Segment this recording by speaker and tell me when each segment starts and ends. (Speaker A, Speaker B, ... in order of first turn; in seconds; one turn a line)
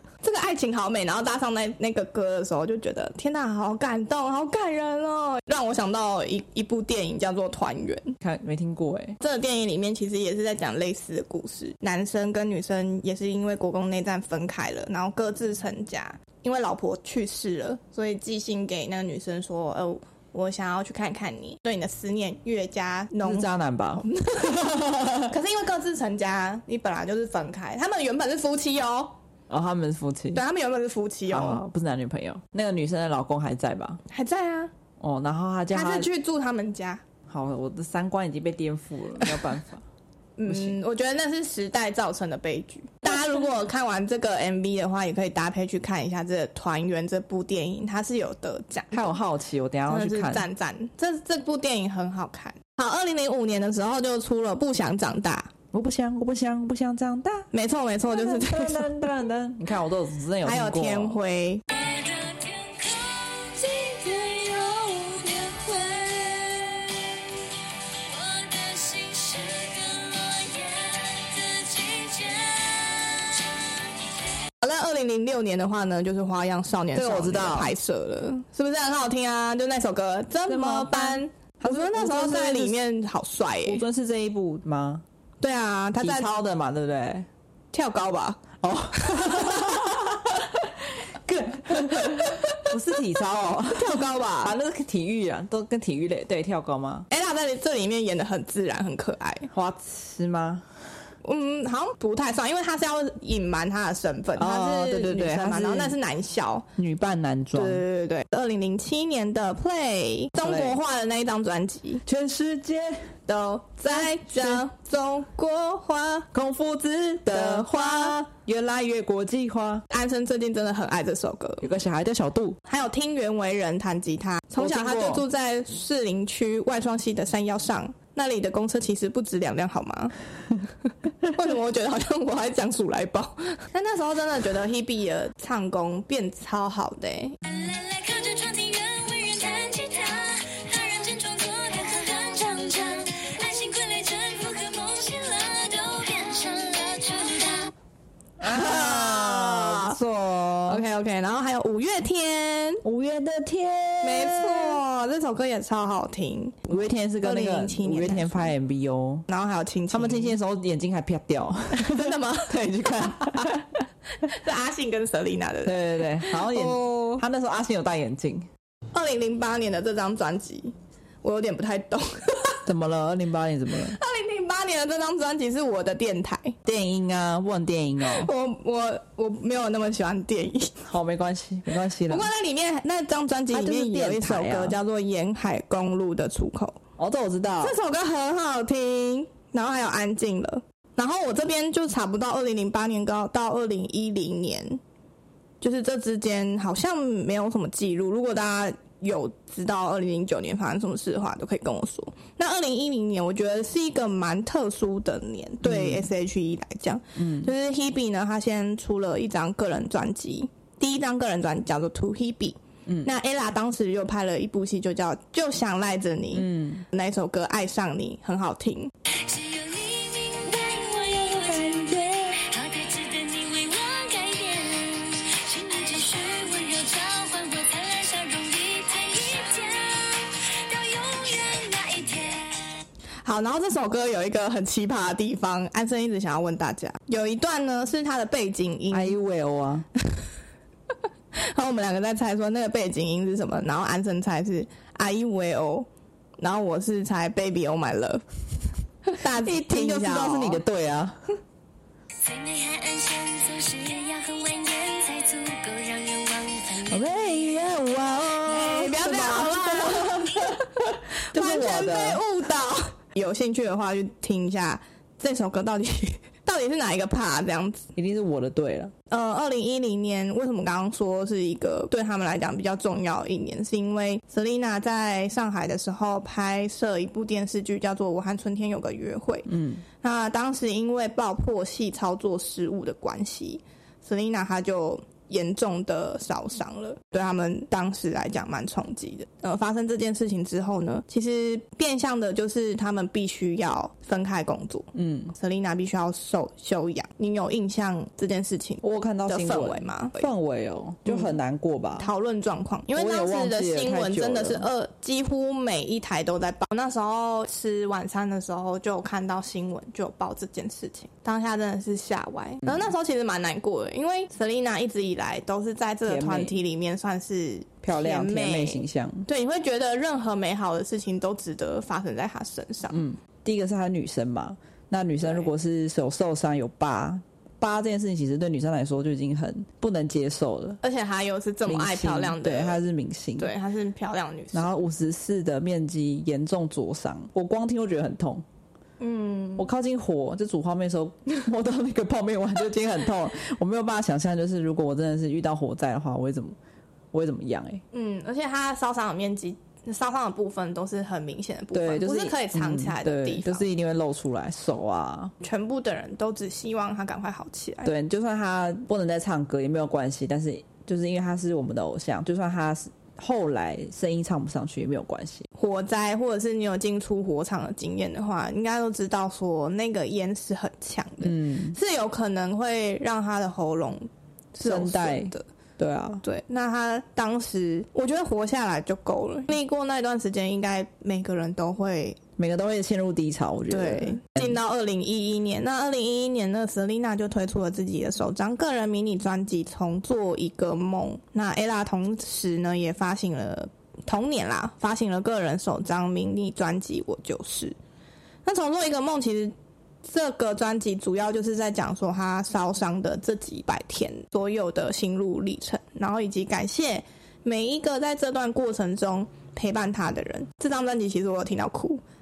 Speaker A: 0.2-8.2
Speaker B: 8.2-9.2
Speaker A: 9.2-29.1
Speaker B: 23.2-25.3
Speaker B: 29.5-30.4
Speaker A: 30.3-31.6
Speaker B: 31.3-34.0
Speaker A: 34.1-34.7
Speaker B: 35.0-36.1
Speaker A: 35.7-37.0
Speaker B: 37.3-39.9
Speaker A: 40.4-49.2
Speaker B: 40.5-40.8
Speaker B: 48.9-50.5
Speaker A: 49.9-55.5
Speaker B: 55.7-57.5
Speaker A: 57.5-59.0
Speaker B: 58.1-61.2
Speaker A: 60.4-61.6
Speaker C: 61.7-67.3
Speaker C: 67.9-74.2
Speaker A: 74.6-83.8
Speaker B: 76.9-77.7
Speaker B: 80.5-82.8
Speaker B: 83.7-85.0
Speaker A: 85.4-86.3
Speaker B: 86.0-87.3
Speaker A: 87.7-89.8
Speaker B: 88.6-97.1
Speaker A: 91.7-92.7
Speaker A: 93.7-94.6
Speaker A: 97.1-99.5
Speaker B: 99.5-100.7
Speaker A: 101.2-106.7
Speaker B: 104.4-106.0
Speaker B: 106.8-107.8
Speaker A: 107.5-112.0
Speaker B: 110.4-110.8
Speaker B: 112.1-113.1
Speaker A: 113.3-116.3
Speaker B: 113.9-114.6
Speaker B: 116.3-119.8
Speaker A: 117.3-118.2
Speaker A: 119.9-121.7
Speaker B: 121.6-122.6
Speaker A: 122.7-130.1
Speaker B: 124.6-125.2
Speaker A: 131.2-137.4
Speaker C: 137.4-147.7
Speaker B: 148.4-150.8
Speaker A: 148.4-150.0
Speaker A: 150.7-152.8
Speaker B: 152.8-154.8
Speaker A: 154.0-158.5
Speaker B: 156.7-159.3
Speaker A: 159.3-160.4
Speaker B: 159.9-163.6
Speaker A: 161.7-163.7
Speaker A: 164.2-167.2
Speaker B: 165.7-168.5
Speaker A: 168.9-172.6
Speaker B: 172.7-174.0
Speaker A: 173.8-176.6
Speaker B: 176.7-178.3
Speaker A: 178.0-180.8
Speaker B: 180.8-182.3
Speaker A: 182.1-186.8
Speaker B: 183.5-184.8
Speaker B: 187.0-187.8
Speaker A: 187.6-194.8
Speaker A: 195.6-218.9
Speaker B: 205.6-206.1
Speaker B: 207.2-207.5
Speaker B: 216.3-216.8
Speaker C: 219.1-232.7
Speaker A: 233.2-239.2
Speaker B: 238.9-239.9
Speaker A: 241.3-245.9
Speaker A: 246.4-248.2
Speaker A: 249.1-250.6
Speaker B: 249.3-251.2
Speaker C: 252.2-257.8
Speaker B: 256.9-262.2
Speaker A: 258.5-260.6
Speaker A: 261.3-267.9
Speaker B: 268.0-268.9
Speaker A: 269.1-300.3
Speaker B: 279.5-279.8
Speaker B: 294.9-295.3
Speaker B: 298.8-302.1
Speaker A: 301.1-301.4
Speaker A: 302.0-323.0
Speaker B: 302.9-304.7
Speaker B: 316.1-316.6
Speaker B: 317.8-319.3
Speaker B: 322.9-330.8
Speaker A: 325.2-325.5
Speaker A: 330.8-332.8
Speaker B: 331.7-333.5
Speaker A: 333.4-334.7
Speaker B: 334.5-338.4
Speaker A: 339.0-339.7
Speaker B: 339.6-346.6
Speaker B: 347.1-347.8
Speaker A: 347.9-353.7
Speaker B: 351.7-355.3
Speaker A: 355.4-357.9
Speaker B: 357.9-365.5
Speaker A: 365.6-375.5
Speaker B: 371.2-371.8
Speaker B: 374.6-376.2
Speaker A: 376.2-382.2
Speaker B: 382.4-384.6
Speaker A: 383.7-397.8
Speaker A: 398.4-412.0